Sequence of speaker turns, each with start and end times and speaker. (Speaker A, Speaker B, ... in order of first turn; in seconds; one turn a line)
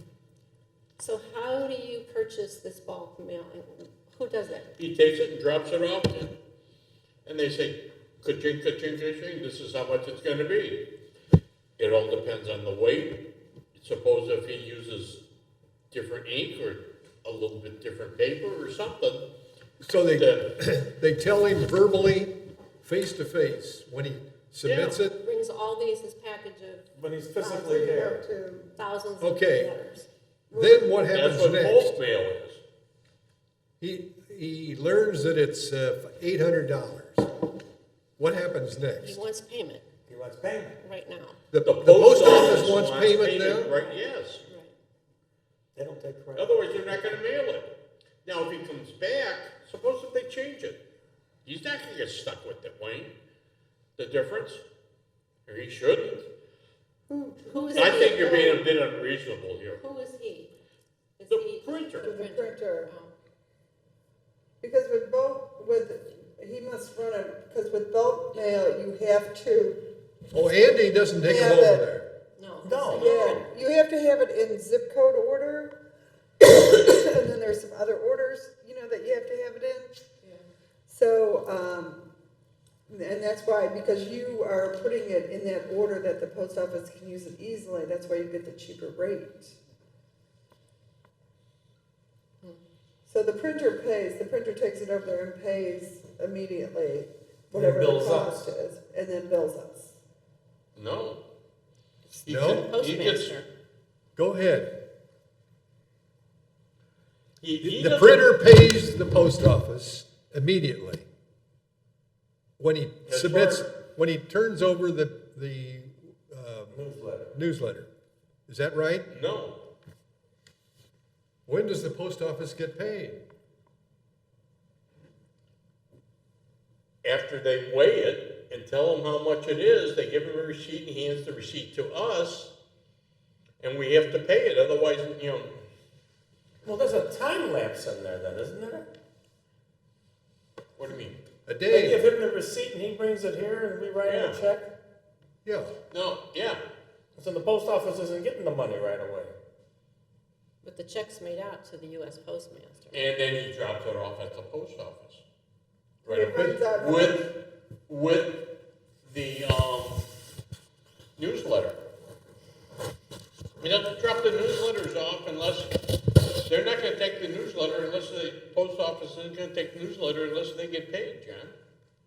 Speaker A: 1.0-4.8
Speaker B: 4.8-6.4
Speaker B: 7.3-10.9
Speaker B: 11.8-15.2
Speaker B: 15.9-19.3
Speaker C: 19.8-25.1
Speaker B: 20.1-20.5
Speaker B: 24.6-25.0
Speaker A: 25.2-26.9
Speaker D: 26.9-28.2
Speaker A: 27.4-28.1
Speaker E: 27.4-28.7
Speaker A: 28.8-30.1
Speaker C: 29.2-29.7
Speaker E: 30.5-31.0
Speaker C: 30.5-31.9
Speaker B: 31.1-32.6
Speaker C: 33.8-37.3
Speaker C: 38.2-39.2
Speaker A: 39.0-39.9
Speaker D: 40.1-40.8
Speaker A: 40.8-41.4
Speaker C: 41.5-43.7
Speaker B: 41.6-44.4
Speaker A: 42.3-42.6
Speaker A: 43.7-44.8
Speaker D: 45.8-46.7
Speaker B: 46.4-47.7
Speaker B: 48.2-50.9
Speaker B: 51.5-53.1
Speaker B: 54.0-54.6
Speaker B: 55.5-56.3
Speaker E: 57.1-58.6
Speaker A: 57.4-58.5
Speaker B: 57.8-59.8
Speaker A: 59.8-60.5
Speaker A: 61.2-63.1
Speaker B: 61.3-62.1
Speaker E: 62.0-62.9
Speaker E: 64.6-69.8
Speaker C: 70.3-72.1
Speaker E: 71.2-71.9
Speaker A: 72.4-73.5
Speaker D: 72.6-73.1
Speaker B: 72.9-73.4
Speaker E: 72.9-75.8
Speaker E: 76.4-79.9
Speaker E: 80.9-82.1
Speaker E: 82.9-89.6
Speaker E: 93.1-100.0
Speaker D: 97.5-98.5
Speaker B: 100.8-101.2
Speaker A: 102.1-103.5
Speaker B: 102.2-103.4
Speaker C: 102.3-102.7
Speaker C: 104.2-104.9
Speaker B: 107.4-108.4
Speaker C: 107.6-111.1
Speaker C: 112.6-116.8
Speaker B: 113.1-113.7
Speaker D: 116.7-117.4
Speaker C: 117.3-117.9
Speaker C: 118.5-119.1
Speaker B: 119.1-119.6
Speaker C: 121.5-123.2
Speaker B: 127.0-132.5
Speaker B: 133.6-135.6
Speaker D: 136.6-138.9
Speaker B: 140.8-141.2
Speaker C: 141.5-142.1
Speaker D: 141.7-144.7
Speaker B: 144.0-144.4
Speaker C: 145.4-145.7
Speaker B: 145.9-146.6
Speaker D: 147.2-149.3
Speaker A: 150.6-153.1
Speaker B: 152.9-155.2
Speaker E: 156.0-157.2
Speaker B: 156.1-160.0
Speaker B: 161.2-161.8
Speaker B: 163.6-165.8
Speaker B: 166.4-171.6